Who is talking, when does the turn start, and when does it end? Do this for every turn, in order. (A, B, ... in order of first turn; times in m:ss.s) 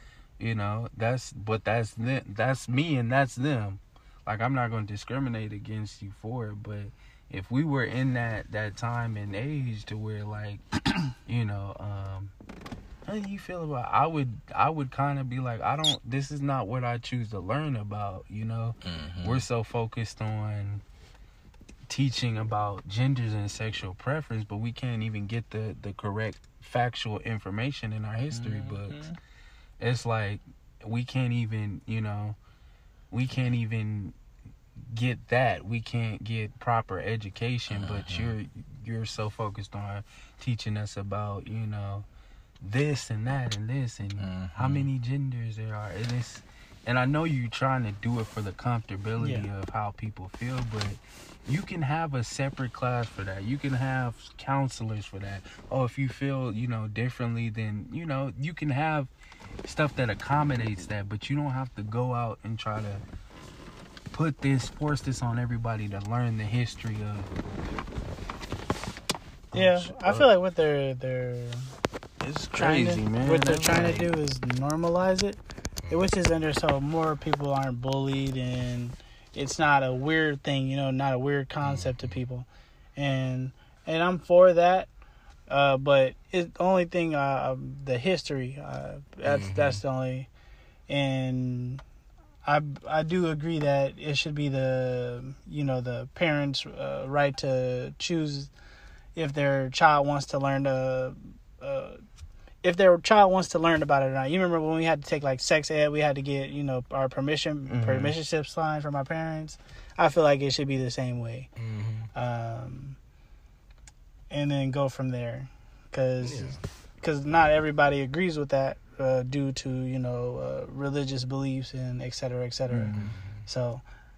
0:00.4-0:12.3 A
0:13.1-0:20.8 A
0:18.8-0:19.4 B
0:21.9-0:29.0 A
0:28.3-0:29.2 B
0:29.8-0:32.4 A
0:33.1-0:34.2 A
0:34.9-0:42.1 A
0:37.7-0:38.4 B
0:42.6-0:59.1 A
0:44.2-0:44.9 B
0:49.2-0:49.5 C
0:59.6-1:03.0 A
1:04.1-1:07.3 A
1:09.5-1:10.3 A
1:09.5-1:11.8 C
1:12.2-1:14.1 A
1:12.6-1:15.4 C
1:15.9-1:24.9 C
1:21.6-1:22.2 B
1:25.5-1:30.3 C
1:29.3-1:29.8 B
1:30.9-1:31.8 C
1:32.4-1:38.5 C
1:39.2-1:42.0 C
1:42.6-1:51.5 C
1:47.7-1:48.2 A
1:51.6-1:52.1 B
1:52.2-1:53.0 C
1:54.3-2:02.9 C
1:56.2-1:56.6 B
2:02.7-2:03.1 A
2:03.0-2:03.4 B
2:03.5-2:03.8 C